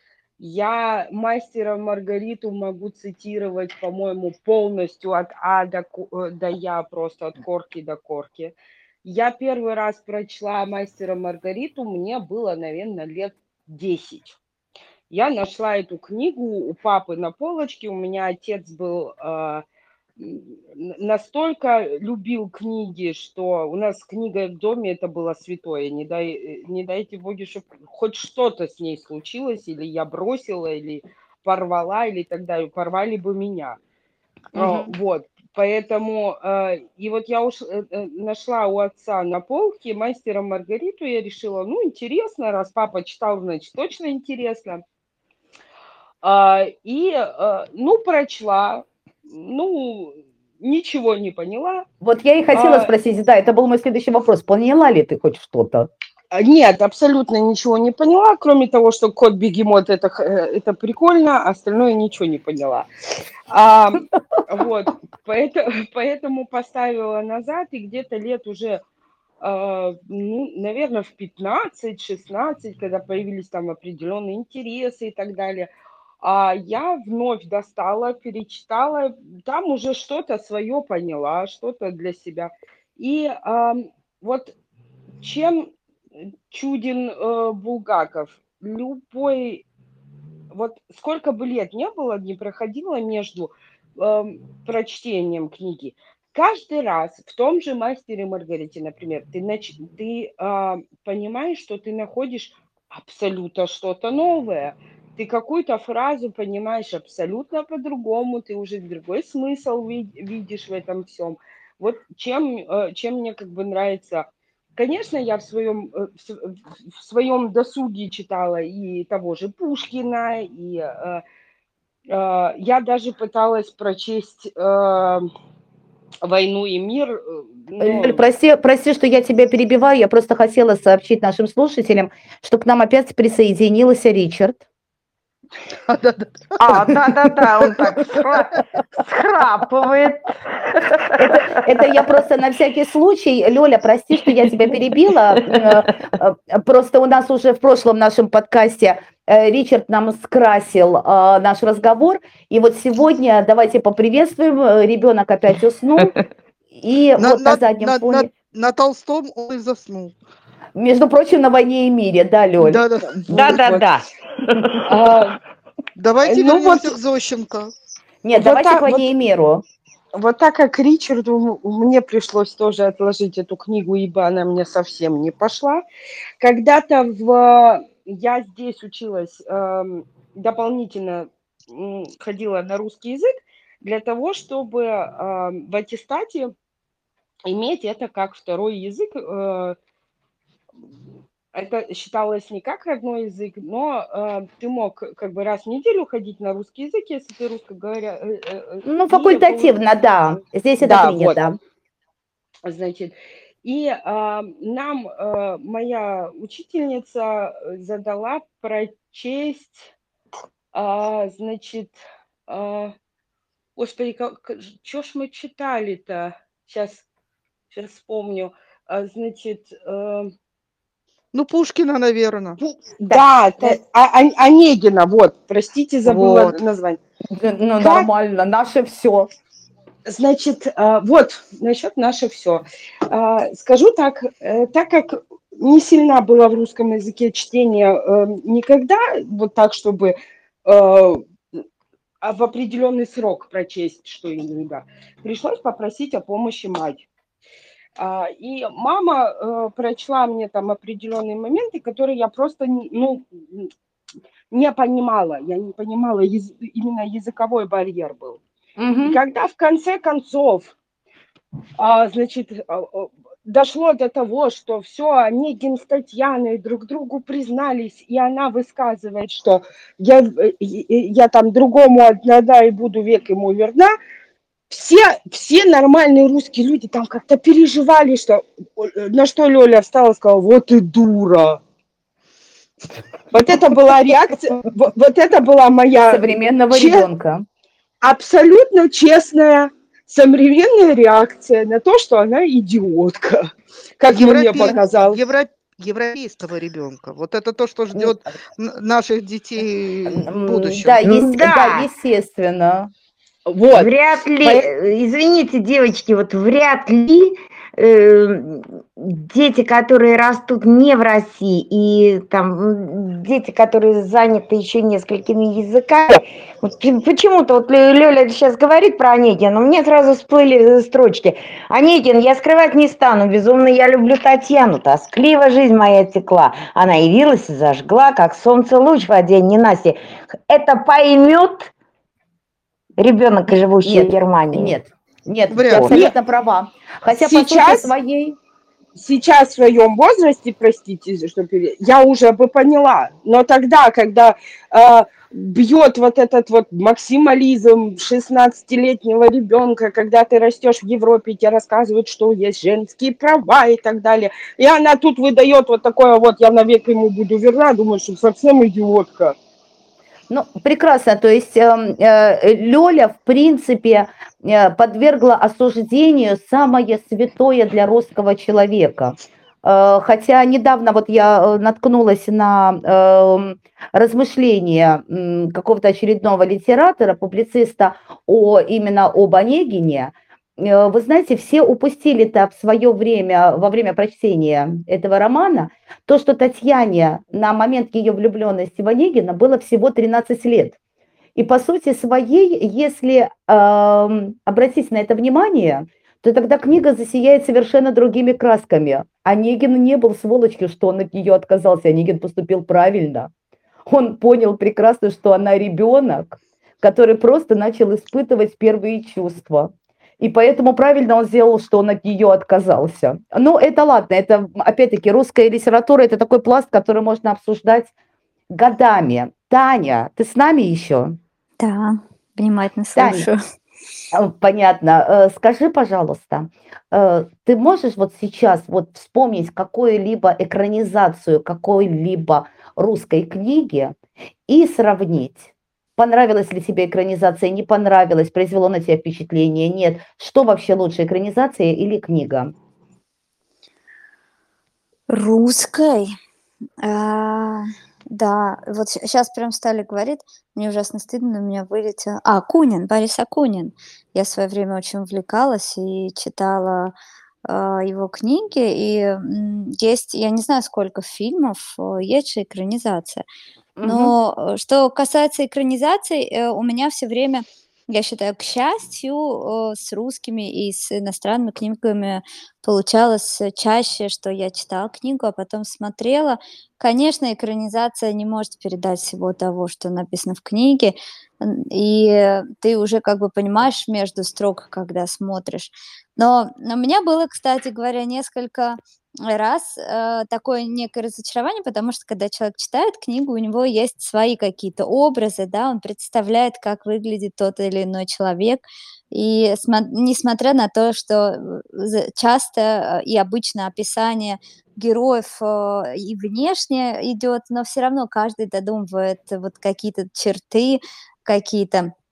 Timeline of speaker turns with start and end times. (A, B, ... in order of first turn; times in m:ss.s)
0:00.4-0:14.4 A
0:15.1-0:19.6 A
0:20.2-0:33.8 A
0:34.5-0:34.9 B
0:34.5-0:44.8 A
0:46.2-0:51.9 A
0:52.0-0:55.9 B
0:52.5-0:52.9 A
0:56.3-1:02.9 A
1:03.5-1:08.8 A
1:09.4-1:15.7 A
1:16.2-1:24.5 A
1:25.2-1:25.7 A
1:26.5-1:29.6 A
1:30.5-2:01.2 A
2:02.1-2:05.2 A
2:06.2-2:08.2 A
2:07.8-2:14.6 B
2:15.9-2:16.4 C
2:16.6-2:21.8 D
2:21.2-2:36.2 B
2:36.8-2:38.3 B
2:37.2-2:40.2 C
2:40.8-2:43.5 B
2:42.6-2:43.2 C
2:43.1-2:43.8 A
2:43.3-2:44.9 D
2:44.9-2:45.4 A
2:46.0-2:47.7 C
2:46.2-2:47.0 A
2:48.2-2:49.6 B
2:48.3-2:49.1 A
2:50.1-2:55.8 A
2:56.4-3:03.3 A
3:03.8-3:06.5 A
3:07.5-3:09.8 A
3:11.5-3:19.7 A
3:18.9-3:21.6 B
3:20.8-3:21.4 A
3:22.6-3:29.9 A
3:30.7-3:31.9 A
3:32.5-3:32.9 A
3:33.8-3:37.0 A
3:37.7-3:40.3 A
3:41.3-3:42.6 C
3:42.6-3:47.0 A
3:43.1-3:43.8 B
3:46.1-3:46.4 B
3:46.3-3:46.6 C
3:47.4-3:49.3 B
3:47.8-3:48.1 A
3:50.1-4:00.1 A
4:00.6-4:01.2 A
4:02.2-4:07.1 A
4:08.0-4:13.7 A
4:14.5-4:18.4 A
4:18.8-4:19.2 B
4:19.0-4:20.7 A
4:21.8-4:33.9 A
4:34.7-4:41.6 A
4:43.3-4:47.1 A
4:46.1-4:47.4 B
4:48.0-4:53.5 A
4:54.0-4:55.2 A
4:54.1-5:01.0 C
4:54.5-4:54.8 B
5:00.1-5:02.9 B
5:01.0-5:01.9 D
5:03.5-5:03.9 A
5:03.7-5:31.7 D
5:04.4-5:04.7 B
5:33.0-5:34.8 D
5:33.8-5:38.4 B
5:35.5-5:36.1 C
5:37.2-5:37.9 A
5:39.0-5:59.4 A
6:00.3-6:30.8 B
6:31.4-6:43.3 B
6:43.9-6:57.9 B
6:58.5-7:01.2 B
7:01.6-7:03.4 E
7:03.0-7:03.3 B
7:04.1-7:14.0 B
7:14.5-7:22.5 B
7:25.1-7:26.1 E
7:26.8-7:36.9 E
7:37.5-7:43.3 E
7:43.8-7:44.1 B
7:43.8-8:08.8 E
8:09.3-8:31.9 E